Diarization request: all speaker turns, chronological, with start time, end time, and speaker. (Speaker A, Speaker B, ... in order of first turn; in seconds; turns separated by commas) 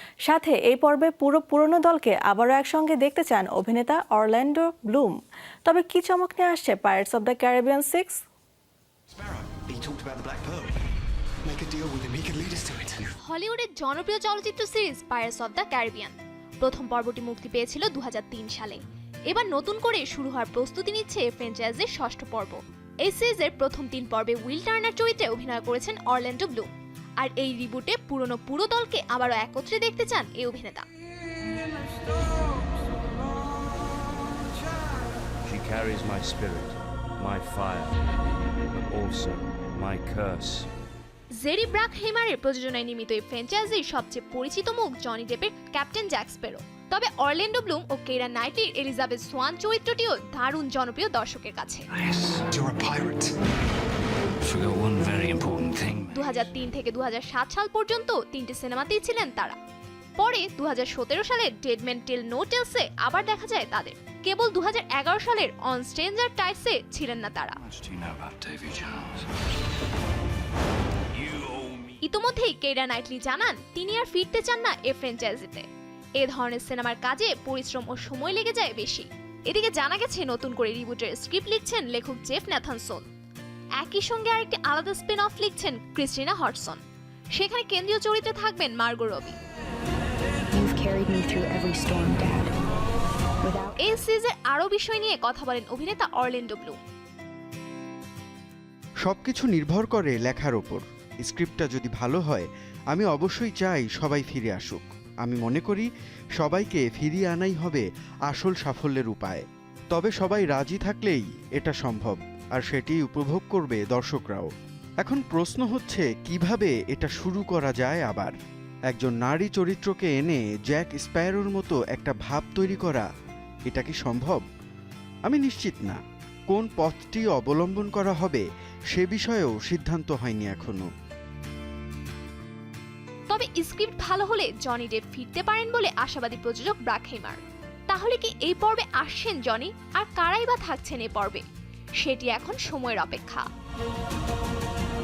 Speaker A: 0.2-5.1, Speaker A: 5.7-8.2, Speaker B: 9.1-10.7, Speaker B: 11.4-13.1, Speaker C: 13.2-30.9, Speaker D: 35.4-38.0, Speaker D: 38.9-40.7, Speaker C: 41.4-51.9, Speaker E: 52.0-52.5, Speaker B: 52.5-53.3, Speaker E: 54.4-56.4, Speaker C: 56.1-59.6, Speaker C: 60.2-67.6, Speaker E: 67.7-69.3, Speaker E: 71.2-71.9, Speaker C: 72.0-75.7, Speaker C: 76.2-83.0, Speaker C: 83.8-86.8, Speaker C: 87.3-89.3, Speaker F: 90.5-92.5, Speaker F: 93.4-93.8, Speaker C: 93.8-96.8, Speaker G: 99.0-114.5, Speaker G: 115.0-118.3, Speaker G: 118.9-123.1, Speaker G: 123.7-124.4, Speaker G: 125.2-126.0, Speaker G: 126.5-130.9, Speaker C: 133.3-141.4, Speaker C: 142.0-143.5